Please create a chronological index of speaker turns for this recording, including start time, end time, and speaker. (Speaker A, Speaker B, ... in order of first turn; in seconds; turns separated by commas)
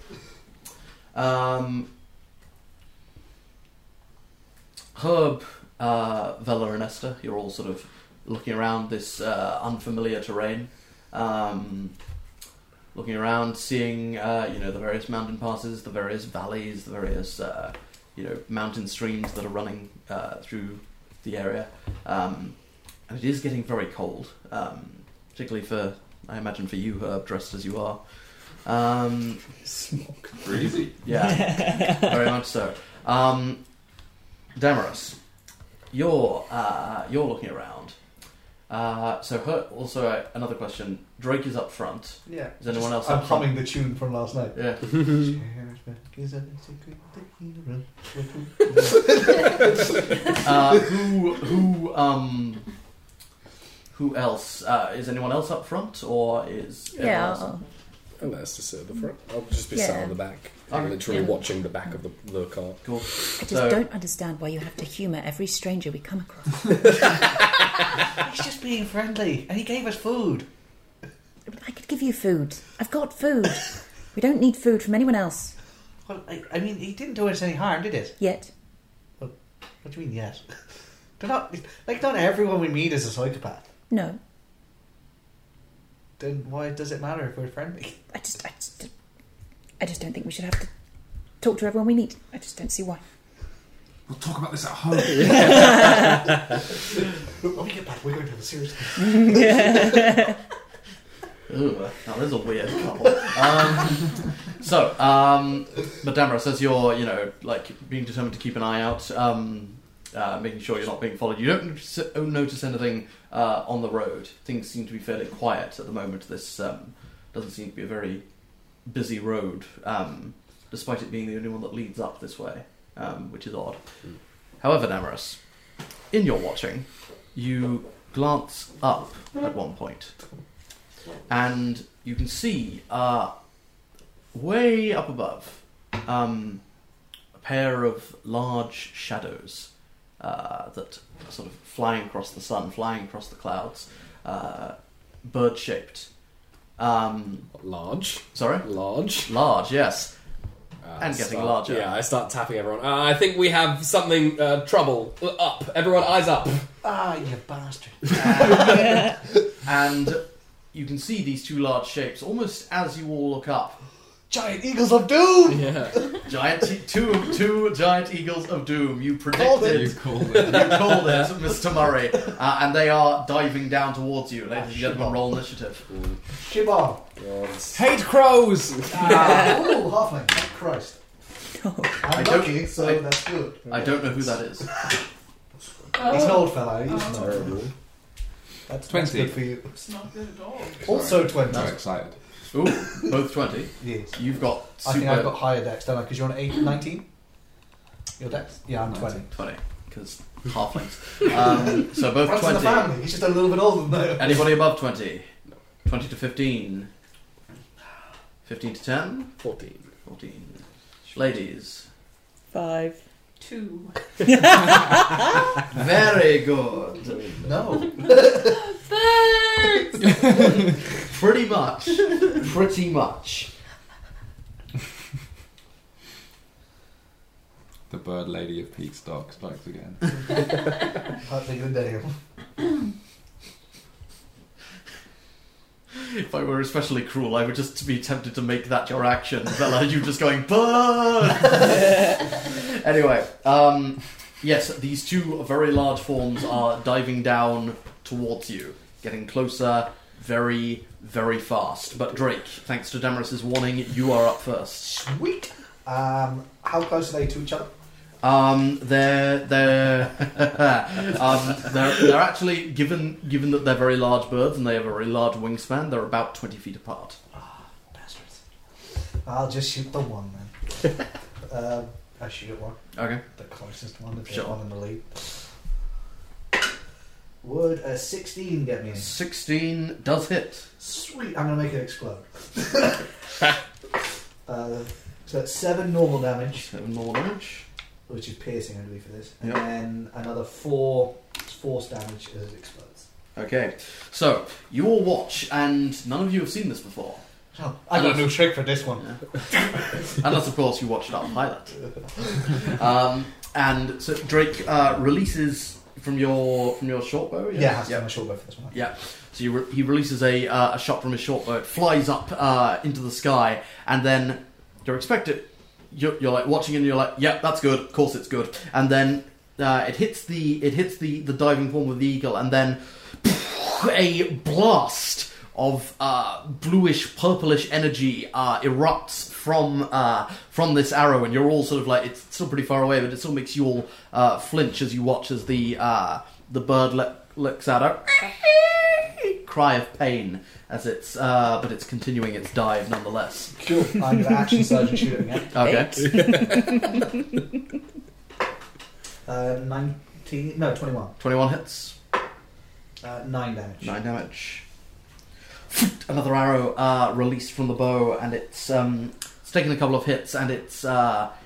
Speaker A: 1.1-1.9, Speaker A: 5.0-12.0, Speaker A: 12.9-29.4, Speaker B: 29.7-30.4, Speaker C: 30.4-31.0, Speaker A: 31.0-33.6, Speaker D: 31.3-32.1, Speaker A: 34.5-35.2, Speaker A: 35.9-38.0, Speaker A: 38.7-43.6, Speaker E: 42.3-49.8, Speaker A: 44.5-45.0, Speaker A: 50.3-52.6, Speaker A: 53.9-57.5, Speaker D: 57.0-57.6, Speaker B: 58.2-62.9, Speaker D: 59.7-60.2, Speaker A: 60.7-61.2, Speaker A: 62.8-63.8, Speaker D: 63.4-66.8, Speaker E: 68.2-70.5, Speaker D: 71.5-75.5, Speaker E: 76.1-78.1, Speaker D: 78.2-78.5, Speaker E: 79.2-80.5, Speaker E: 81.2-83.6, Speaker D: 83.9-84.2, Speaker E: 86.2-88.0, Speaker D: 88.1-88.9, Speaker D: 89.8-90.7, Speaker D: 91.4-93.0, Speaker C: 94.1-96.2, Speaker D: 95.5-96.2, Speaker E: 97.4-99.8, Speaker D: 99.0-100.3, Speaker A: 101.5-118.2, Speaker A: 118.8-123.8, Speaker A: 124.6-125.4, Speaker A: 126.1-130.2, Speaker A: 131.3-133.3, Speaker A: 134.3-136.6, Speaker A: 137.4-146.1, Speaker A: 146.8-147.5, Speaker B: 147.6-149.3, Speaker A: 148.3-150.1, Speaker B: 150.8-156.7, Speaker A: 151.0-151.9, Speaker E: 156.8-159.2, Speaker A: 158.1-163.8, Speaker E: 164.3-166.1, Speaker B: 165.5-166.0, Speaker A: 166.2-175.9, Speaker E: 169.3-169.9, Speaker C: 169.5-170.8, Speaker B: 170.3-171.3, Speaker E: 174.5-175.2, Speaker B: 175.9-176.2, Speaker E: 176.3-177.0, Speaker B: 177.2-177.9, Speaker C: 177.7-179.7, Speaker E: 178.9-181.0, Speaker D: 181.5-182.0, Speaker E: 182.0-184.0, Speaker A: 182.1-183.1, Speaker A: 183.7-184.7, Speaker F: 185.9-187.4, Speaker E: 186.0-187.6, Speaker B: 187.1-187.7, Speaker E: 188.7-189.7, Speaker C: 188.9-189.6, Speaker F: 189.7-190.9, Speaker E: 190.8-191.7, Speaker C: 190.9-192.2, Speaker A: 191.5-191.7, Speaker A: 192.5-195.4, Speaker E: 193.8-194.2, Speaker E: 194.8-197.1, Speaker E: 198.2-199.3, Speaker C: 198.9-199.2, Speaker A: 199.3-202.9, Speaker E: 201.4-204.6, Speaker A: 204.2-205.3, Speaker A: 205.8-206.9, Speaker A: 208.4-209.3, Speaker B: 209.4-209.9, Speaker A: 210.1-210.6, Speaker A: 211.1-211.9, Speaker D: 212.5-213.0, Speaker F: 213.4-214.0, Speaker D: 214.3-215.2, Speaker A: 215.7-217.2, Speaker B: 217.1-217.7, Speaker E: 217.4-218.6, Speaker F: 218.1-220.1, Speaker A: 220.2-223.5, Speaker C: 227.9-230.3, Speaker E: 231.2-232.2, Speaker A: 235.9-254.9, Speaker E: 254.8-257.7, Speaker A: 258.2-267.2, Speaker E: 267.3-268.4, Speaker E: 269.2-270.9, Speaker E: 271.4-272.8, Speaker A: 272.9-273.2, Speaker E: 273.3-275.3, Speaker A: 274.3-274.5, Speaker E: 277.4-279.1, Speaker A: 279.0-280.7, Speaker E: 280.8-283.1, Speaker E: 284.5-286.7, Speaker A: 286.7-287.7, Speaker E: 288.1-293.1, Speaker A: 293.4-297.2, Speaker E: 297.5-299.1, Speaker A: 297.9-298.4, Speaker A: 299.0-308.1, Speaker E: 307.5-308.8, Speaker A: 308.7-343.6, Speaker E: 343.6-345.6, Speaker A: 345.5-346.4, Speaker D: 345.6-346.9, Speaker E: 349.3-351.1, Speaker A: 351.2-352.0, Speaker E: 353.0-353.9, Speaker A: 353.8-354.6, Speaker A: 355.7-361.3